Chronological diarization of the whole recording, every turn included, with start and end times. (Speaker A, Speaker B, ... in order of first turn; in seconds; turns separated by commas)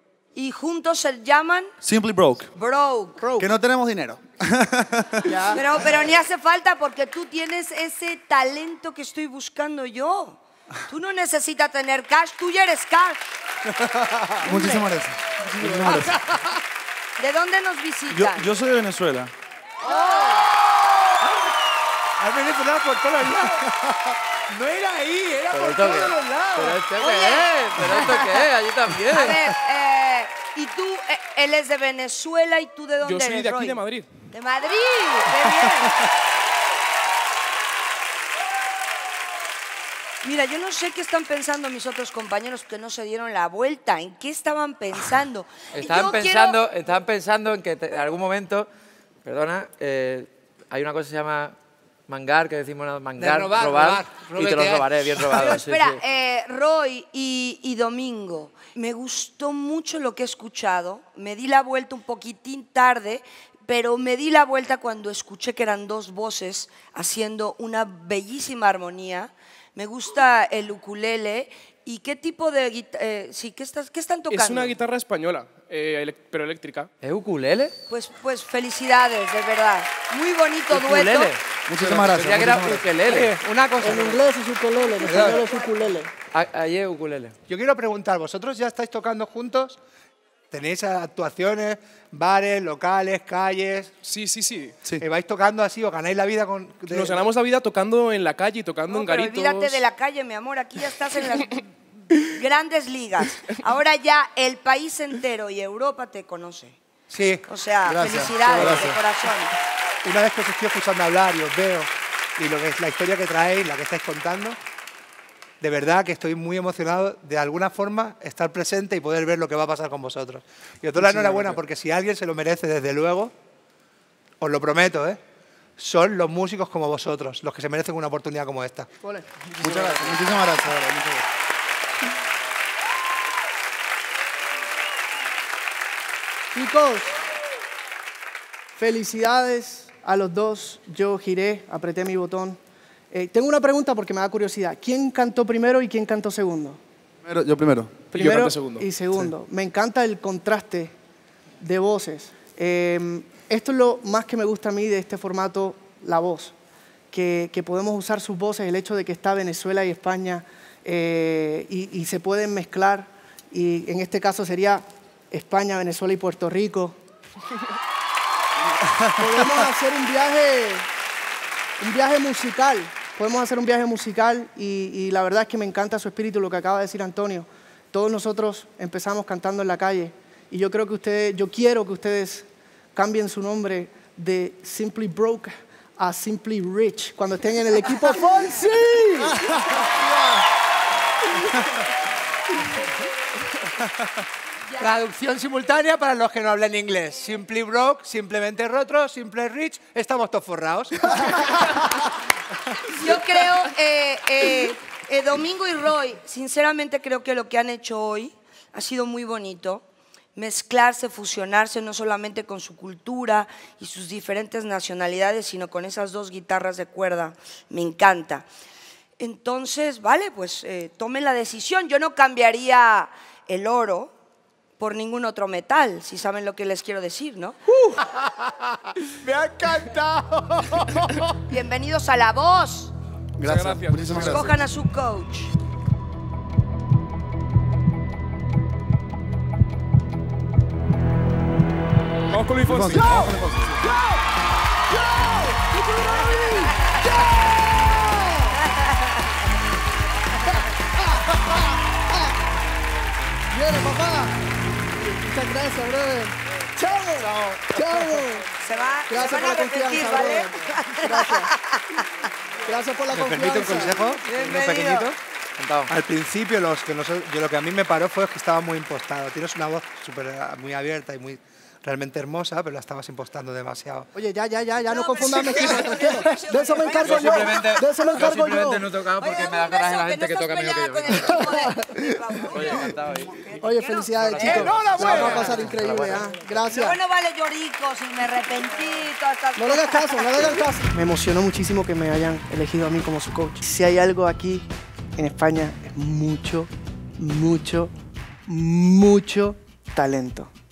Speaker A: 0.3-1.7, Speaker B: 1.8-2.5, Speaker A: 2.5-3.2, Speaker C: 3.2-3.5, Speaker B: 3.4-5.3, Speaker C: 5.2-6.1, Speaker A: 5.6-10.4, Speaker A: 10.9-13.2, Speaker D: 14.0-14.5, Speaker C: 14.4-14.8, Speaker B: 14.4-16.1, Speaker C: 15.6-15.9, Speaker A: 17.2-18.5, Speaker B: 18.1-19.3, Speaker D: 22.2-26.8, Speaker E: 25.5-29.6, Speaker A: 26.9-28.4, Speaker A: 29.2-36.0, Speaker F: 33.0-34.1, Speaker D: 35.4-35.8, Speaker A: 40.2-46.6, Speaker E: 45.6-48.7, Speaker E: 49.2-51.5, Speaker E: 52.1-56.0, Speaker D: 53.2-55.6, Speaker A: 55.5-74.8, Speaker F: 74.3-76.9, Speaker E: 77.0-77.8, Speaker A: 77.9-81.3, Speaker E: 80.7-81.4, Speaker B: 81.7-82.9, Speaker E: 82.1-84.2, Speaker C: 83.8-86.1, Speaker A: 84.8-85.7, Speaker D: 85.0-85.5, Speaker E: 86.3-87.3, Speaker D: 87.5-89.8, Speaker D: 90.5-93.9, Speaker F: 94.1-94.7, Speaker D: 95.0-97.2, Speaker F: 96.9-99.8, Speaker A: 98.9-101.7, Speaker A: 102.3-106.8, Speaker D: 107.1-107.5, Speaker A: 107.5-109.5, Speaker B: 107.8-109.0, Speaker D: 108.4-109.0, Speaker D: 110.0-114.6, Speaker D: 115.6-123.3, Speaker D: 124.4-125.2, Speaker D: 125.8-128.9, Speaker C: 129.0-129.5, Speaker B: 129.6-131.2, Speaker C: 136.5-137.2, Speaker C: 138.8-142.6, Speaker C: 143.1-146.8, Speaker B: 147.2-147.9, Speaker F: 148.1-149.3, Speaker C: 148.1-150.9, Speaker C: 151.6-156.5, Speaker C: 157.1-167.0, Speaker C: 169.2-170.9, Speaker C: 171.8-189.3, Speaker D: 189.3-190.1, Speaker D: 194.8-201.7, Speaker A: 203.0-209.8, Speaker A: 210.3-218.5, Speaker A: 219.2-224.1, Speaker A: 224.8-227.6, Speaker D: 229.2-231.2, Speaker A: 231.5-232.9, Speaker B: 233.4-234.6, Speaker F: 233.4-234.4, Speaker A: 234.3-235.5, Speaker F: 242.3-242.9, Speaker B: 242.6-243.6, Speaker C: 242.9-243.3, Speaker C: 244.9-248.5, Speaker A: 246.8-247.0, Speaker A: 248.6-249.2, Speaker C: 253.5-254.4, Speaker C: 255.0-258.5, Speaker D: 257.2-258.2, Speaker A: 258.6-262.1, Speaker C: 259.1-261.5, Speaker C: 262.7-264.1, Speaker D: 263.1-265.2, Speaker A: 264.2-265.1, Speaker E: 264.5-265.9, Speaker D: 265.9-274.1, Speaker C: 274.1-278.8, Speaker A: 274.9-277.1, Speaker D: 275.3-275.9, Speaker E: 276.9-281.5, Speaker A: 279.2-284.2, Speaker C: 281.1-282.9, Speaker E: 282.5-286.5, Speaker C: 283.6-287.0, Speaker D: 284.4-285.7, Speaker A: 286.6-290.6, Speaker C: 289.6-297.9, Speaker C: 298.5-300.5